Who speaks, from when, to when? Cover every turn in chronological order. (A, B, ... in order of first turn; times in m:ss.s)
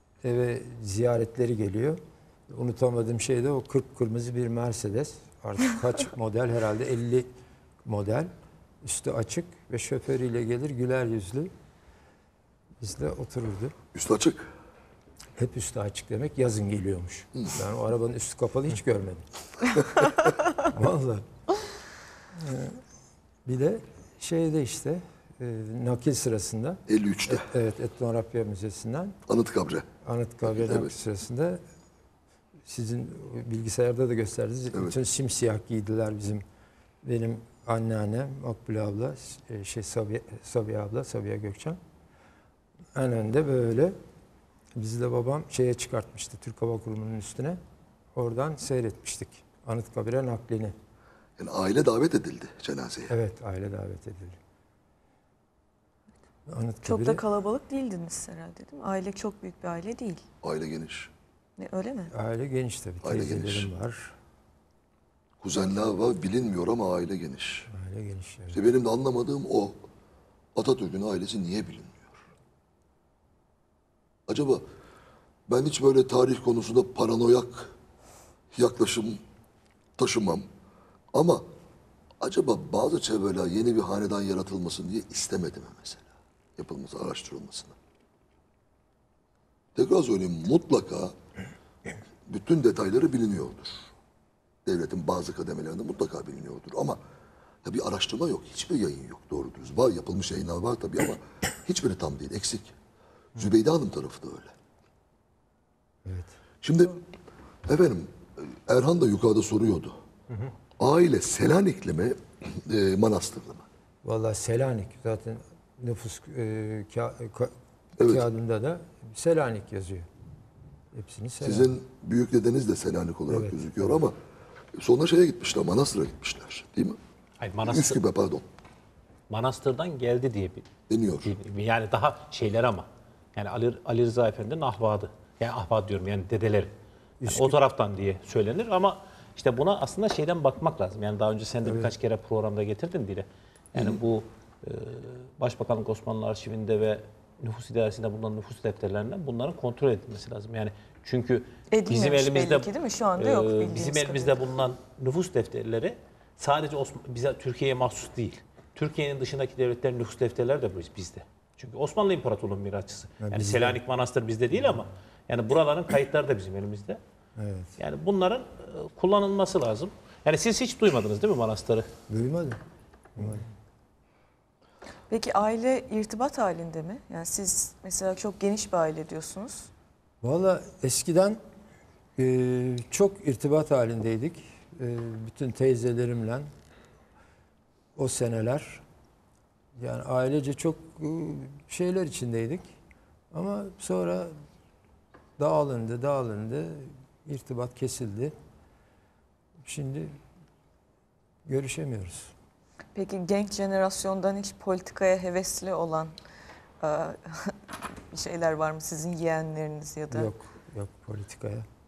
0:00.2-0:07.3 A
0:07.8-0:08.3 A
0:08.8-0:11.5 A
0:12.8-0:13.7 A
0:13.9-0:14.5 B
0:15.4-0:19.2 A
0:20.6-0:21.2 A
0:22.3-0:22.8 A
0:23.4-0:29.2 A
0:26.9-0:27.5 B
0:29.3-0:29.8 B
0:30.0-0:31.6 A
0:30.4-0:31.0 B
0:32.6-0:36.4 A
0:37.0-0:41.8 A
0:42.9-0:43.9 A
0:44.8-0:47.6 A
0:48.2-0:50.7 A
0:51.4-0:53.1 B
0:53.1-0:54.4 A
0:56.5-0:57.2 A
0:56.8-1:00.2 C
1:00.4-1:01.1 B
1:01.6-1:02.1 C
1:02.1-1:04.1 A
1:03.0-1:03.7 B
1:05.4-1:07.7 B
1:07.7-1:08.6 A
1:08.5-1:09.8 B
1:10.6-1:12.2 B
1:14.3-1:14.6 B
1:15.5-1:17.7 B
1:18.5-1:19.2 B
1:20.0-1:20.4 B
1:21.1-1:21.4 B
1:22.2-1:27.8 B
1:29.8-1:31.1 B
1:32.3-1:33.9 B
1:34.6-1:37.0 B
1:37.6-1:42.7 B
1:43.3-1:44.5 B
1:46.0-1:46.3 A
1:46.6-1:47.0 B
1:47.6-1:50.0 B
1:50.8-1:53.6 B
1:54.0-2:00.1 A
1:58.0-1:58.2 B
2:00.9-2:01.7 A
2:01.4-2:04.2 B
2:03.3-2:04.0 A
2:04.8-2:07.0 B
2:07.4-2:08.0 D
2:07.6-2:08.4 B
2:09.3-2:10.7 D
2:10.9-2:11.3 B
2:11.2-2:16.7 D
2:17.2-2:17.6 A
2:17.2-2:47.0 D
2:21.6-2:21.9 A
2:31.7-2:34.4 C
2:43.2-2:43.8 A
2:47.4-2:47.8 A
2:47.8-2:51.9 D
2:52.1-2:52.6 A
2:53.2-2:53.4 A
2:55.1-2:59.7 C
3:00.2-3:01.4 A
3:02.2-3:06.5 A
3:08.0-3:08.8 A
3:09.8-3:12.7 A
3:13.3-3:14.3 A
3:15.4-3:18.3 A
3:19.6-3:20.1 A
3:21.4-3:22.3 A
3:22.9-3:26.1 C
3:26.8-3:30.3 C
3:30.1-3:31.6 A